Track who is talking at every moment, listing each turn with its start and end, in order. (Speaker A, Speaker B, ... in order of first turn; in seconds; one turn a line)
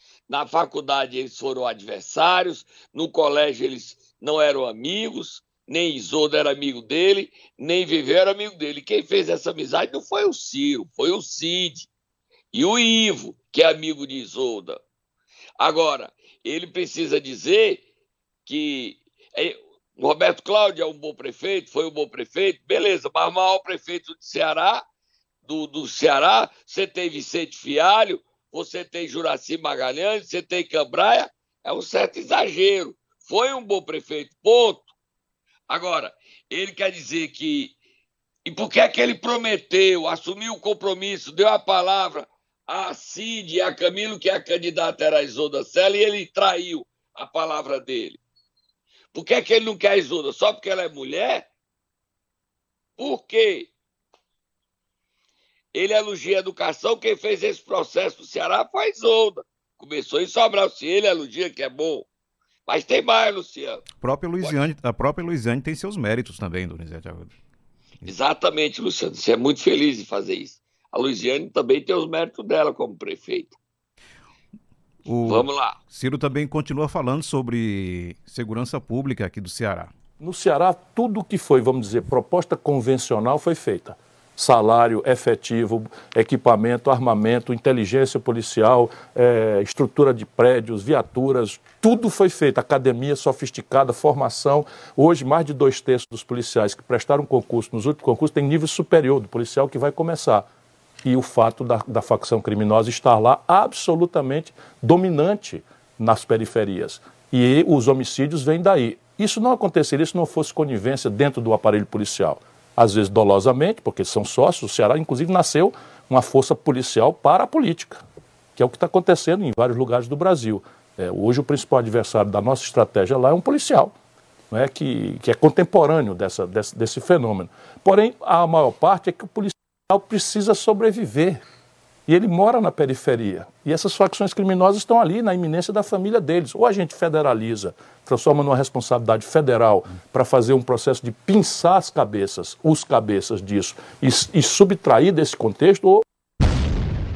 Speaker A: 0.3-11.9
Speaker A: 12.5-14.8
Speaker A: 15.6-17.8
Speaker A: 18.5-24.8
Speaker A: 25.4-34.9
Speaker A: 35.7-37.7
Speaker A: 38.5-48.2
Speaker A: 49.1-51.5
Speaker A: 53.0-53.7
Speaker A: 55.7-62.1
Speaker A: 62.7-63.9
Speaker B: 63.9-67.3
Speaker A: 68.1-73.6
Speaker B: 75.0-79.9
Speaker A: 75.2-75.8
Speaker C: 80.2-100.5
Speaker C: 101.0-118.0
Speaker C: 118.5-123.9
Speaker C: 124.5-131.4
Speaker C: 132.1-146.0